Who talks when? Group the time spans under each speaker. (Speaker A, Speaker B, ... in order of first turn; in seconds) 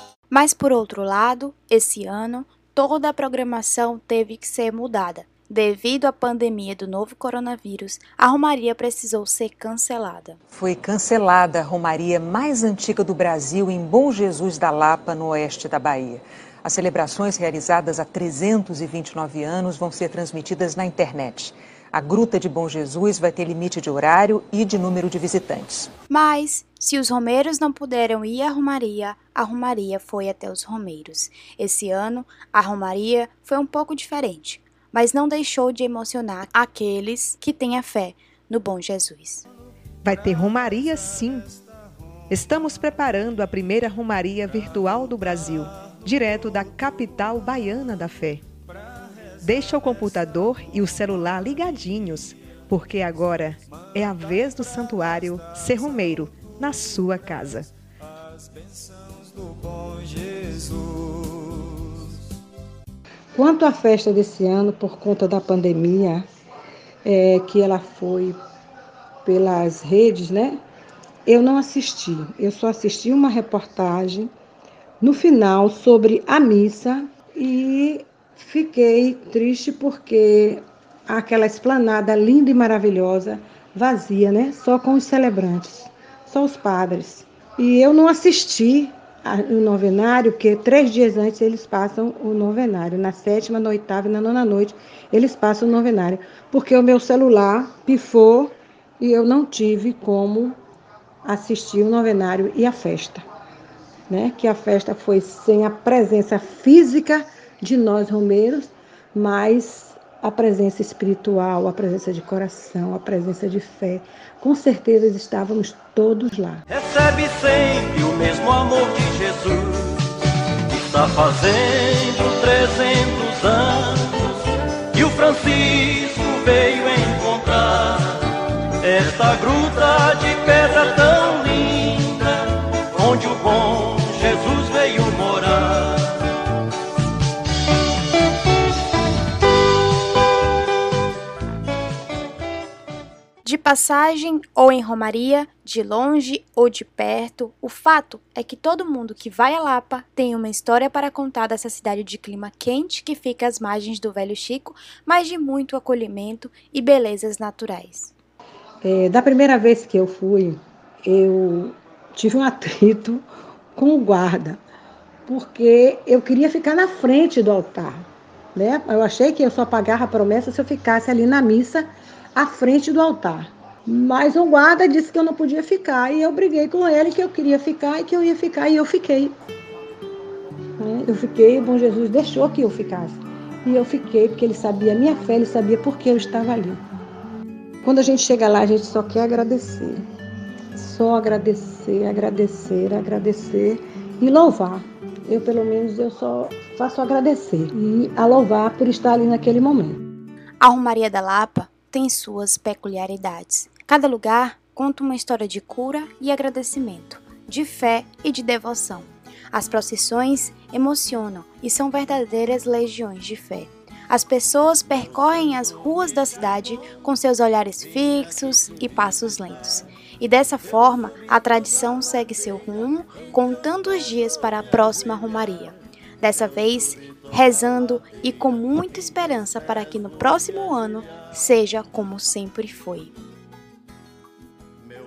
Speaker A: 0.3-10.4, 26.1-39.5, 143.4-158.1, 200.6-233.1
Speaker B: 10.5-25.9
Speaker C: 40.0-41.5, 42.3-48.4, 49.4-57.7, 59.7-61.1
Speaker D: 63.3-66.2, 67.0-68.4, 69.2-70.6, 71.3-74.3, 75.0-100.6, 101.2-103.2, 104.1-116.6, 158.8-164.6, 165.2-179.3, 180.8-186.8, 187.8-190.1, 190.7-200.0
Speaker E: 116.7-128.2, 128.8-136.3